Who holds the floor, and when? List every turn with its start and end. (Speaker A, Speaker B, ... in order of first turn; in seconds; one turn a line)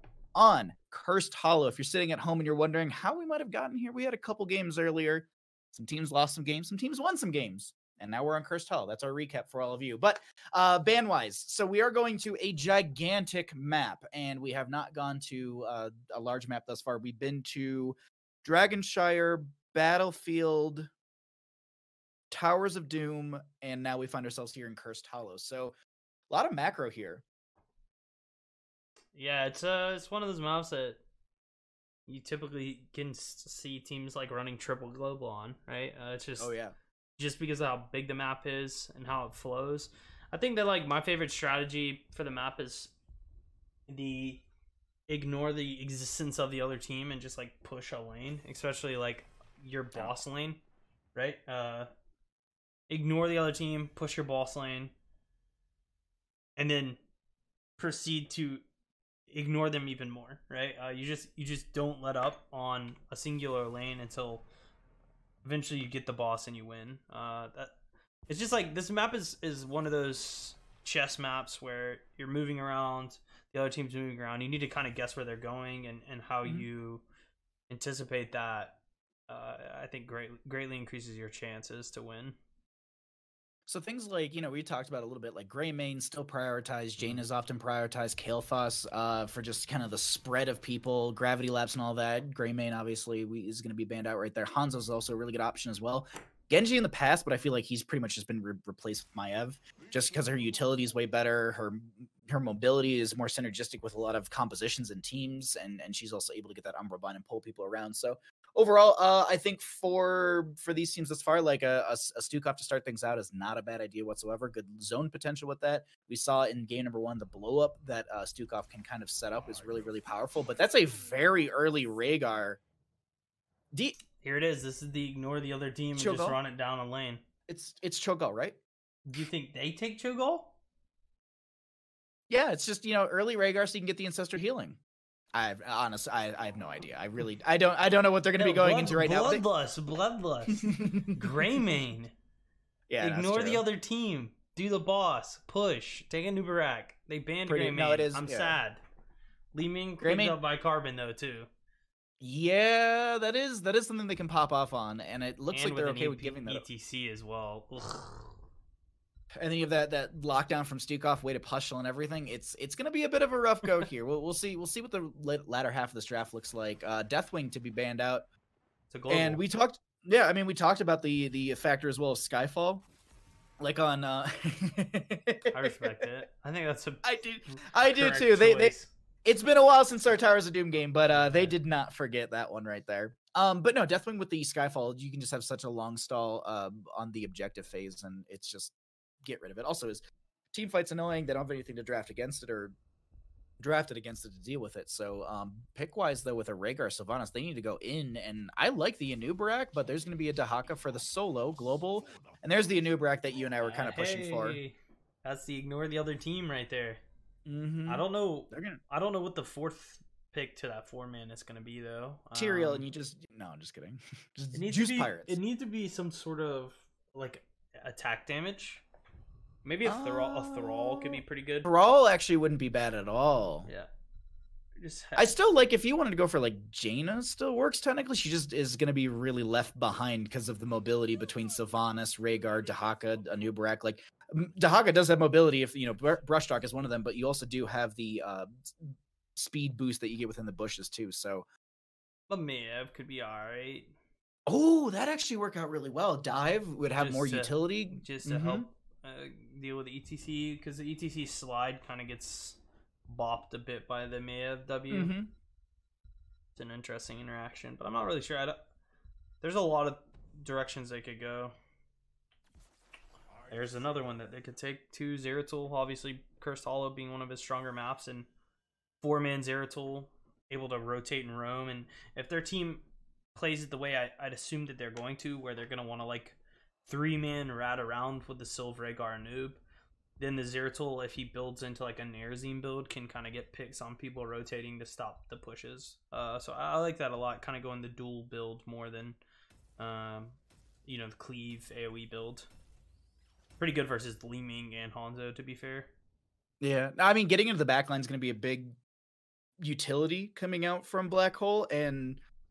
Speaker A: 0.3-20.9
Speaker A: 22.3-25.8
Speaker A: 26.3-27.2
Speaker B: 29.1-31.0
Speaker B: 32.1-36.5
Speaker A: 36.4-36.8
Speaker B: 37.2-42.9
Speaker B: 43.9-44.4
Speaker B: 45.1-50.6
Speaker A: 49.9-50.2
Speaker B: 51.1-51.9
Speaker B: 52.9-54.9
Speaker B: 56.6-57.0
Speaker B: 57.8-58.6
Speaker B: 59.3-64.5
Speaker B: 65.4-67.8
Speaker B: 68.3-77.0
Speaker B: 77.7-82.4
Speaker A: 83.7-122.6
Speaker A: 123.7-124.0
Speaker B: 124.2-127.2
Speaker A: 126.0-126.4
Speaker A: 127.5-128.6
Speaker B: 129.1-130.5
Speaker A: 132.3-134.8
Speaker A: 135.3-139.4
Speaker B: 138.4-142.1
Speaker A: 140.6-141.2
Speaker A: 142.9-143.6
Speaker B: 143.0-148.8
Speaker A: 147.5-148.6
Speaker B: 149.5-151.5
Speaker A: 150.0-150.4
Speaker A: 152.2-156.7
Speaker B: 155.5-158.3
Speaker A: 159.3-168.2
Speaker B: 168.9-169.4
Speaker A: 169.1-172.8
Speaker A: 173.6-176.0
Speaker B: 175.5-178.9
Speaker A: 177.0-178.7
Speaker A: 179.2-188.7
Speaker B: 181.1-181.6
Speaker A: 189.2-190.0
Speaker A: 190.5-192.8
Speaker A: 193.6-204.6
Speaker B: 203.6-207.0
Speaker A: 207.5-208.8
Speaker B: 207.9-212.8
Speaker A: 212.3-215.4
Speaker B: 214.5-218.8
Speaker B: 219.6-221.7
Speaker A: 219.8-223.7
Speaker B: 223.7-223.9
Speaker B: 224.8-225.3
Speaker A: 225.2-241.5
Speaker B: 242.3-243.9
Speaker A: 244.5-248.7
Speaker B: 246.9-255.1
Speaker A: 254.9-255.3
Speaker B: 256.5-258.6
Speaker B: 259.4-261.5
Speaker B: 263.5-268.3
Speaker B: 269.0-279.6
Speaker B: 280.2-289.2
Speaker B: 289.8-292.5
Speaker B: 293.6-295.9
Speaker A: 296.6-298.8
Speaker A: 299.6-302.2